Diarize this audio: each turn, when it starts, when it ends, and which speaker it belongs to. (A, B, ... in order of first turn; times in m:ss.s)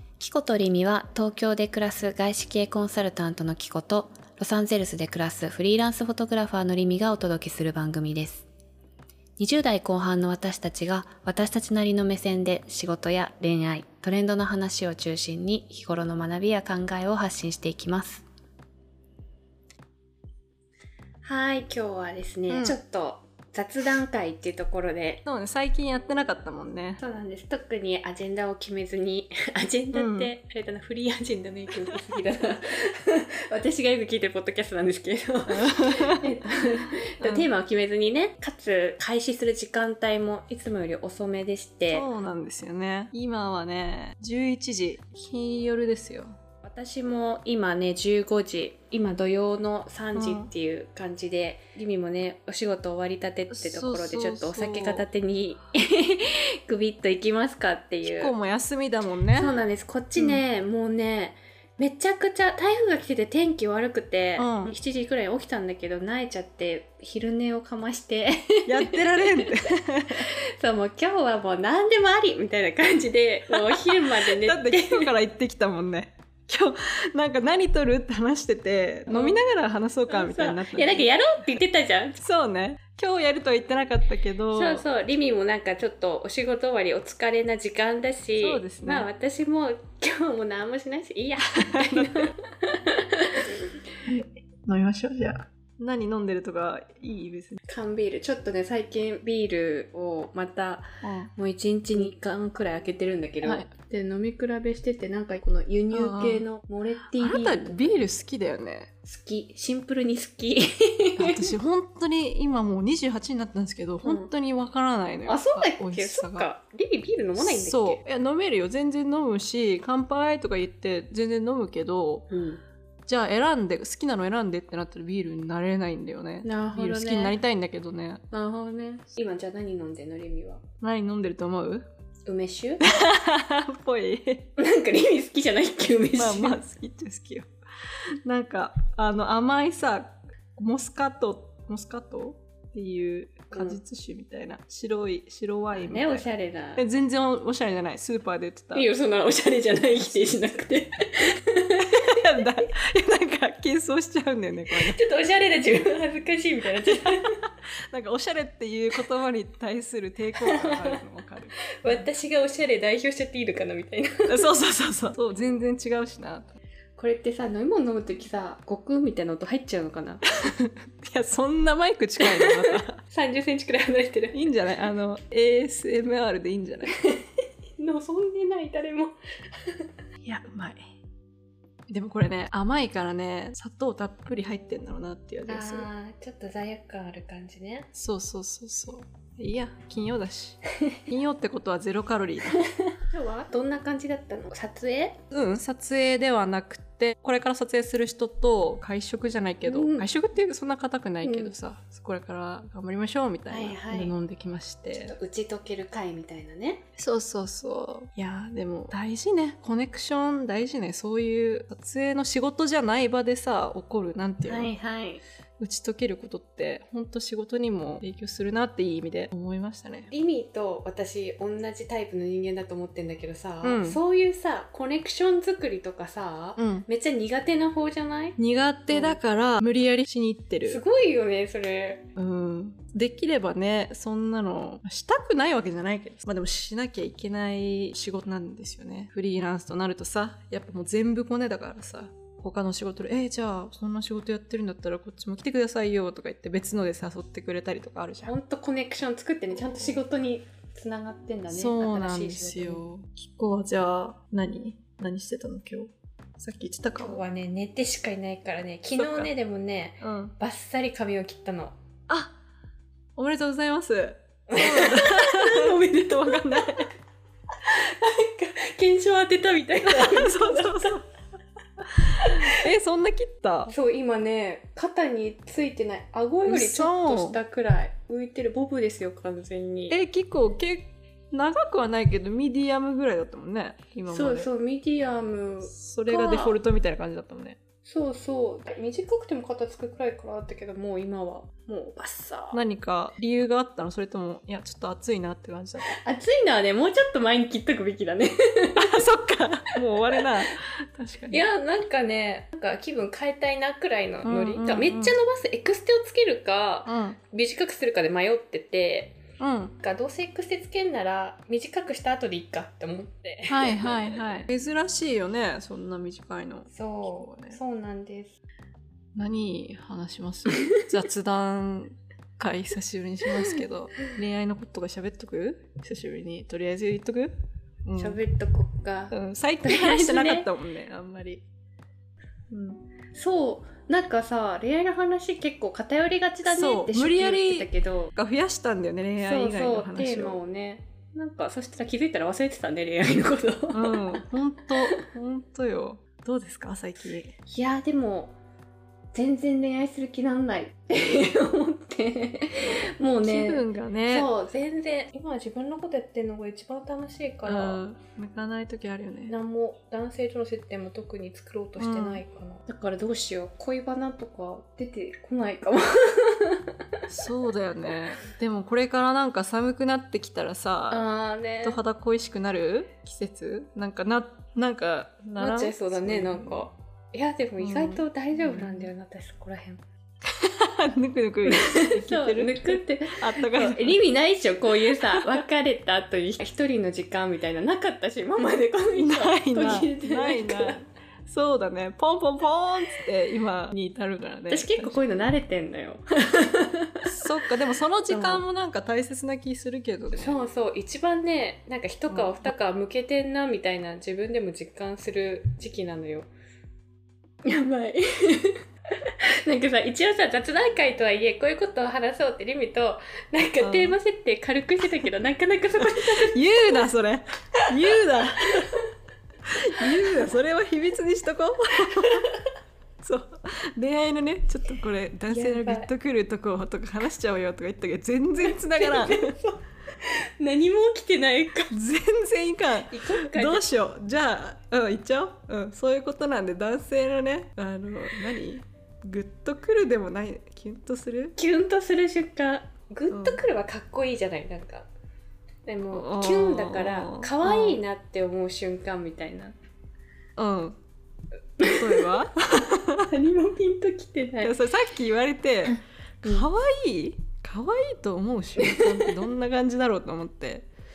0:00.2-0:08.5 A
0:09.4-0:18.2 A
0:21.2-0:25.2 A
0:22.5-0:22.8 B
0:25.2-0:27.0 B
0:27.0-0:42.0 A
0:29.9-0:30.3 B
0:35.5-0:36.3 B
0:37.2-0:37.5 B
0:41.9-0:46.3 B
0:46.6-0:58.3 A
0:50.1-0:50.5 B
0:53.5-0:55.0 B
0:58.0-0:59.6 B
0:59.3-1:15.1 A
1:00.2-1:00.4 B
1:04.4-1:04.7 B
1:08.7-1:10.2 B
1:13.5-1:21.1 B
1:19.1-1:19.4 A
1:20.1-1:22.2 A
1:22.2-1:24.8 B
1:24.5-1:33.7 A
1:28.4-1:29.1 B
1:31.6-1:32.3 B
1:34.0-1:37.6 B
1:37.7-1:48.1 A
1:41.0-1:41.3 B
1:43.4-1:43.7 B
1:45.9-1:46.4 B
1:47.2-1:48.9 B
1:49.0-1:51.5 A
1:51.2-1:56.5 B
1:54.0-1:54.3 A
1:55.2-1:58.0 A
1:57.4-2:02.3 B
2:02.3-2:02.6 A
2:03.0-2:08.2 B
2:06.4-2:07.4 A
2:08.3-2:10.6 A
2:10.8-2:11.8 B
2:12.2-2:12.8 A
2:12.8-2:14.5 B
2:14.6-2:16.6 A
2:16.2-2:17.5 B
2:18.2-2:28.9 B
2:23.5-2:23.8 A
2:25.7-2:26.8 A
2:28.7-2:32.4 A
2:31.9-2:35.0 B
2:34.7-2:37.3 A
2:37.2-2:42.0 B
2:40.4-2:41.0 A
2:41.8-2:44.5 A
2:44.3-2:46.5 B
2:47.0-2:50.3 A
2:50.5-2:53.0 B
2:52.2-2:54.4 A
2:54.3-2:56.9 B
2:56.8-2:57.2 A
2:57.8-2:59.8 A
3:00.2-3:00.8 B
3:01.9-3:05.9 B
3:05.5-3:07.9 A
3:07.9-3:12.6 B
3:12.5-3:15.2 A
3:15.3-3:25.1 B
3:19.6-3:20.1 A
3:21.2-3:21.5 A
3:23.5-3:24.2 A
3:24.9-3:26.8 A
3:27.0-3:34.7 B
3:34.4-3:35.2 A
3:35.6-3:40.1 B
3:40.1-3:48.4 A
3:43.6-3:44.0 B
3:46.6-3:46.8 B
3:48.4-3:50.8 B
3:48.9-3:49.2 A
3:50.6-3:52.1 A
3:52.2-4:08.3 B
4:08.2-4:12.8 A
4:09.5-4:10.0 B
4:11.5-4:17.2 B
4:17.0-4:21.8 A
4:19.0-4:19.3 B
4:20.0-4:20.3 B
4:22.1-4:22.3 B
4:23.2-4:26.9 B
4:24.5-4:26.8 A
4:27.6-4:31.0 A
4:29.8-4:31.0 B
4:32.0-4:32.6 A
4:32.2-4:33.7 B
4:33.7-4:40.0 A
4:36.4-4:37.4 B
4:39.9-4:44.5 B
4:44.0-4:46.6 A
4:45.7-4:47.6 B
4:47.8-4:52.6 A
4:52.5-4:55.9 B
4:55.8-4:59.0 A
4:58.8-5:01.4 B
5:01.3-5:09.2 A
5:04.2-5:05.2 B
5:06.8-5:07.2 B
5:09.4-5:09.7 B
5:09.8-5:14.4 A
5:13.5-5:17.6 B
5:16.7-5:18.4 A
5:19.1-5:28.2 B
5:28.0-5:30.5 A
5:29.1-5:31.4 B
5:32.5-5:32.8 B
5:33.1-5:38.1 A
5:36.4-5:40.4 B
5:39.2-5:44.2 A
5:43.7-5:47.3 B
5:47.4-5:48.3 A
5:49.1-5:57.8 A
5:53.2-5:54.3 B
5:57.4-5:59.3 B
5:59.3-6:06.7 A
6:01.8-6:02.2 B
6:07.1-6:11.0 B
6:10.9-6:11.8 A
6:11.6-6:16.6 B
6:15.4-6:19.8 A
6:17.6-6:18.9 B
6:20.3-6:24.0 B
6:21.4-6:30.8 A
6:24.8-6:25.4 B
6:28.9-6:35.0 B
6:34.5-6:37.1 A
6:37.0-6:40.3 B
6:38.1-6:38.4 A
6:40.1-6:46.3 A
6:42.1-6:42.5 B
6:47.4-6:56.8 A
6:53.6-6:54.0 B
6:55.8-6:58.7 B
6:58.0-6:58.8 A
6:59.4-7:02.3 B
7:01.9-7:02.4 A
7:03.0-7:09.3 B
7:05.3-7:05.9 A
7:08.4-7:11.7 A
7:11.7-7:21.4 B
7:12.9-7:13.7 A
7:21.4-7:24.9 A
7:23.1-7:23.4 B
7:25.6-7:29.5 A
7:25.9-7:27.8 B
7:30.4-7:30.8 B
7:31.6-7:32.1 A
7:31.6-7:33.1 B
7:33.0-7:34.5 A
7:34.4-7:40.7 B
7:35.7-7:36.5 A
7:38.6-7:39.2 A